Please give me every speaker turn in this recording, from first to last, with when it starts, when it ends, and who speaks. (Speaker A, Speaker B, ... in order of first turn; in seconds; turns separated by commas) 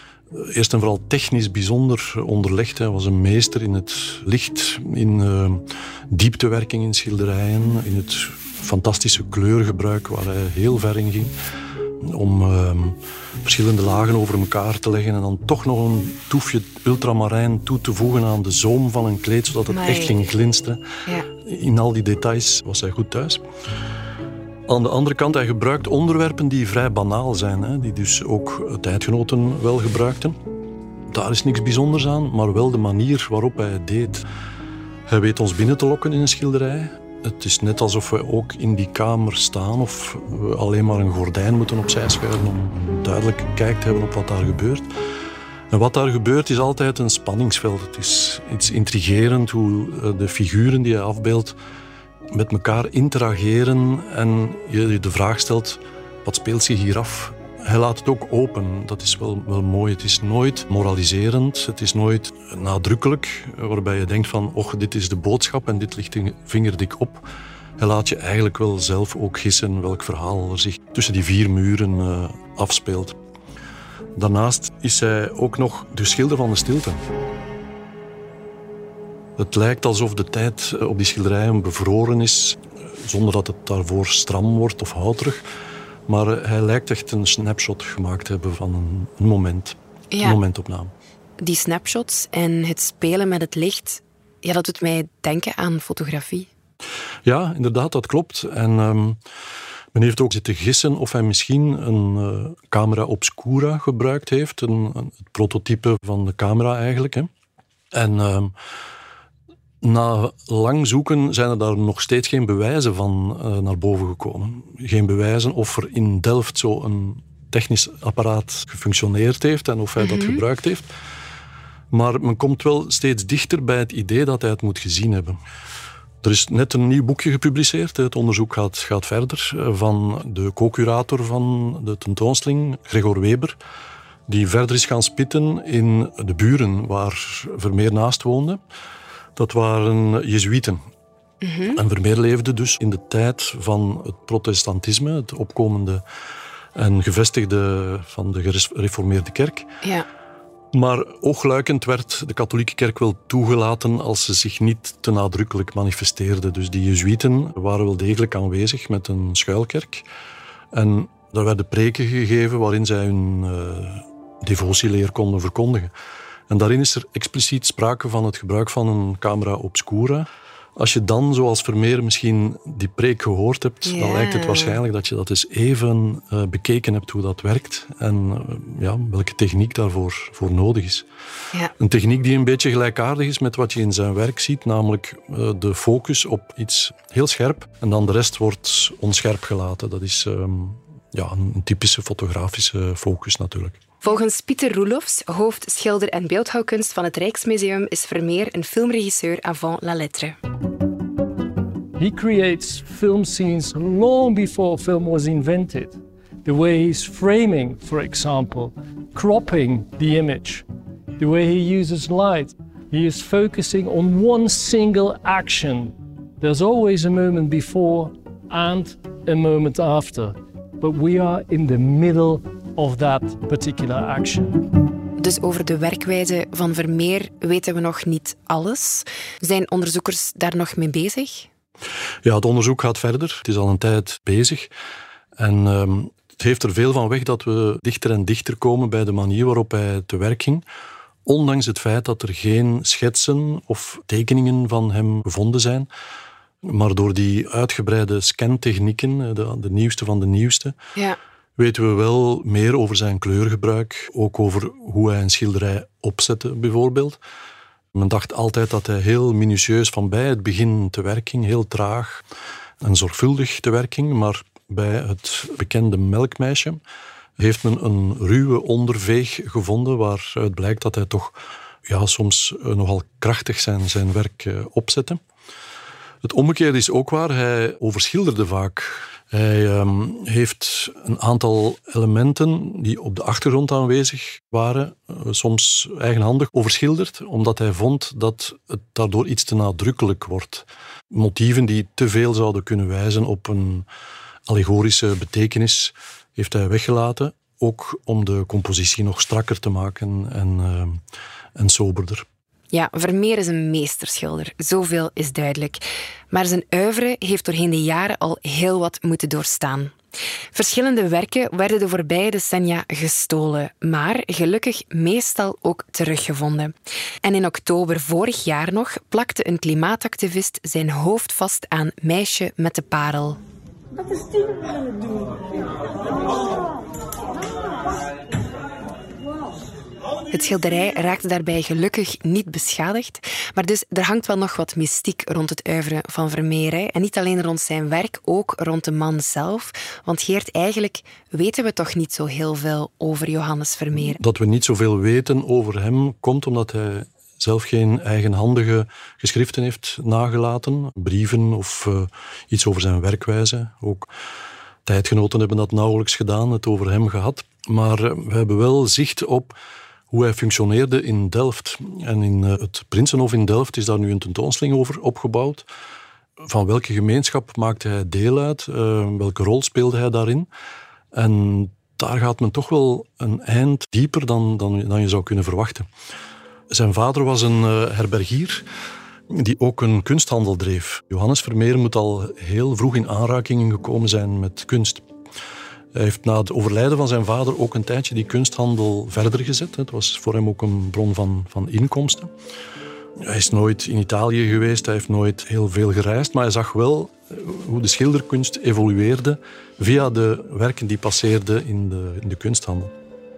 Speaker A: 0.3-11.3, Speaker A: 12.0-23.4, Speaker B: 19.7-20.1, Speaker A: 24.7-30.4, Speaker A: 31.1-34.3, Speaker A: 35.1-44.9, Speaker A: 45.7-51.6, Speaker A: 52.3-67.2, Speaker A: 67.8-73.2, Speaker A: 74.2-77.0, Speaker A: 79.4-85.5, Speaker A: 86.1-90.9, Speaker B: 90.1-90.4, Speaker B: 91.4-96.5, Speaker A: 97.2-99.2, Speaker A: 99.9-107.3, Speaker A: 107.9-108.5, Speaker A: 109.8-120.9, Speaker B: 120.0-120.4, Speaker A: 121.9-125.4, Speaker A: 126.2-133.6, Speaker A: 134.3-138.6, Speaker A: 139.4-140.8, Speaker B: 141.4-141.8, Speaker A: 141.7-146.0, Speaker A: 146.8-149.7, Speaker A: 150.7-160.1, Speaker A: 160.7-165.9, Speaker A: 166.5-181.1, Speaker B: 173.8-174.8, Speaker A: 181.8-193.8, Speaker B: 194.0-200.4, Speaker C: 202.0-210.7, Speaker C: 211.2-224.6, Speaker B: 225.2-231.5, Speaker A: 232.2-234.7, Speaker A: 235.4-240.7, Speaker A: 241.2-245.9, Speaker A: 246.6-250.8, Speaker A: 251.6-257.2, Speaker A: 257.9-262.2, Speaker A: 262.8-266.8, Speaker A: 267.4-275.2, Speaker A: 276.2-293.9, Speaker A: 294.5-301.0, Speaker A: 301.6-302.2, Speaker B: 302.7-310.0, Speaker B: 310.5-323.4, Speaker B: 330.3-344.2, Speaker A: 343.9-354.1, Speaker A: 354.9-359.6, Speaker A: 360.1-365.7, Speaker A: 366.4-370.5, Speaker A: 371.1-375.9, Speaker A: 376.7-378.7, Speaker A: 379.3-385.1, Speaker A: 385.9-392.3, Speaker A: 393.2-402.9